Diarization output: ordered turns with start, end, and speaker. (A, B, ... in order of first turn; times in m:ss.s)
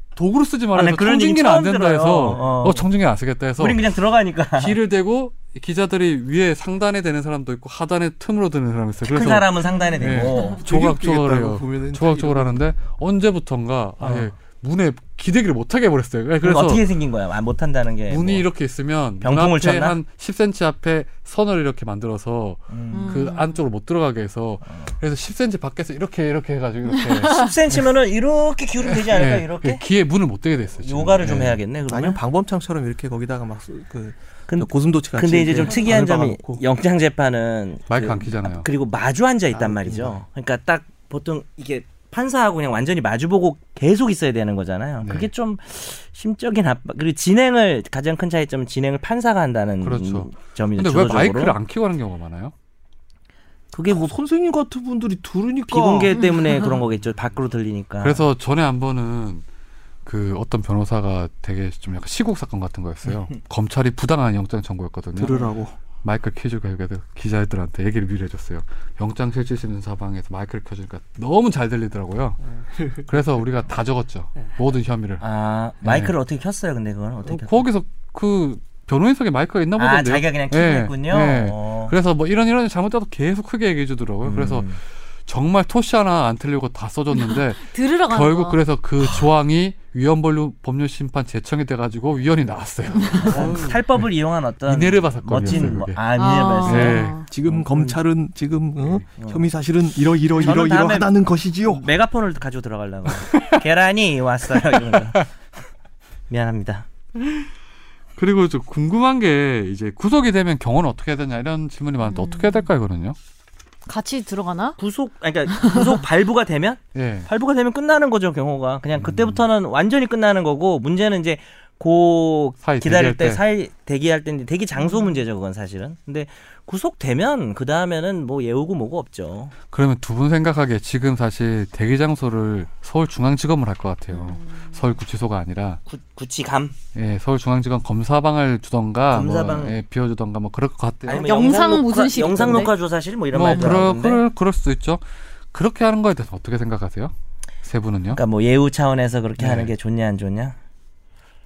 0:00.2-0:03.9 A
0:00.8-0:02.9 B
0:03.6-0:04.8 B
0:04.6-0:16.9 A
0:09.1-0:10.6 B
0:09.8-0:10.4 C
0:10.6-0:12.6 D
0:14.0-0:14.3 B
0:16.4-0:18.5 B
0:18.1-0:27.8 A
0:19.2-0:20.0 B
0:22.7-0:23.3 B
0:22.9-0:23.6 C
0:26.9-0:27.5 C
0:27.3-0:29.8 B
0:28.8-0:31.6 A
0:30.8-0:32.2 B
0:31.9-0:36.6 D
0:34.5-0:51.6 B
0:37.9-0:38.7 A
0:39.5-0:40.2 D
0:45.0-0:45.3 A
0:49.8-0:52.5 A
0:53.7-0:54.1 B
0:53.9-0:56.2 D
0:55.7-0:58.2 B
0:56.2-0:56.7 C
0:58.0-0:59.4 A
1:00.0-1:05.4 A
1:05.2-1:05.8 D
1:06.0-1:12.4 A
1:12.8-1:13.0 D
1:13.0-1:15.2 A
1:15.2-1:17.7 B
1:15.8-1:16.1 A
1:17.2-1:34.1 A
1:19.8-1:21.9 B
1:24.2-1:24.8 B
1:27.1-1:28.6 C
1:33.0-1:33.4 C
1:33.2-1:38.0 B
1:33.3-1:33.8 D
1:34.7-1:36.0 A
1:36.2-1:37.3 C
1:36.6-1:37.2 A
1:37.3-1:41.9 D
1:39.2-1:39.4 B
1:40.4-1:41.1 B
1:41.7-1:45.3 B
1:43.2-1:43.6 A
1:46.3-1:46.9 B
1:47.2-1:47.5 A
1:48.2-1:53.2 A
1:52.0-1:52.7 C
1:53.9-1:54.8 C
1:54.8-2:09.5 B
1:55.5-1:56.0 C
1:56.9-1:57.3 A
1:59.0-1:59.4 A
2:02.6-2:03.4 A
2:04.8-2:05.2 C
2:09.7-2:15.8 A
2:14.1-2:14.7 C
2:15.9-2:16.8 B
2:17.0-2:21.4 A
2:19.1-2:19.8 B
2:21.0-2:24.2 B
2:21.2-2:22.7 C
2:23.3-2:28.2 A
2:28.1-2:30.6 B
2:29.4-2:29.7 A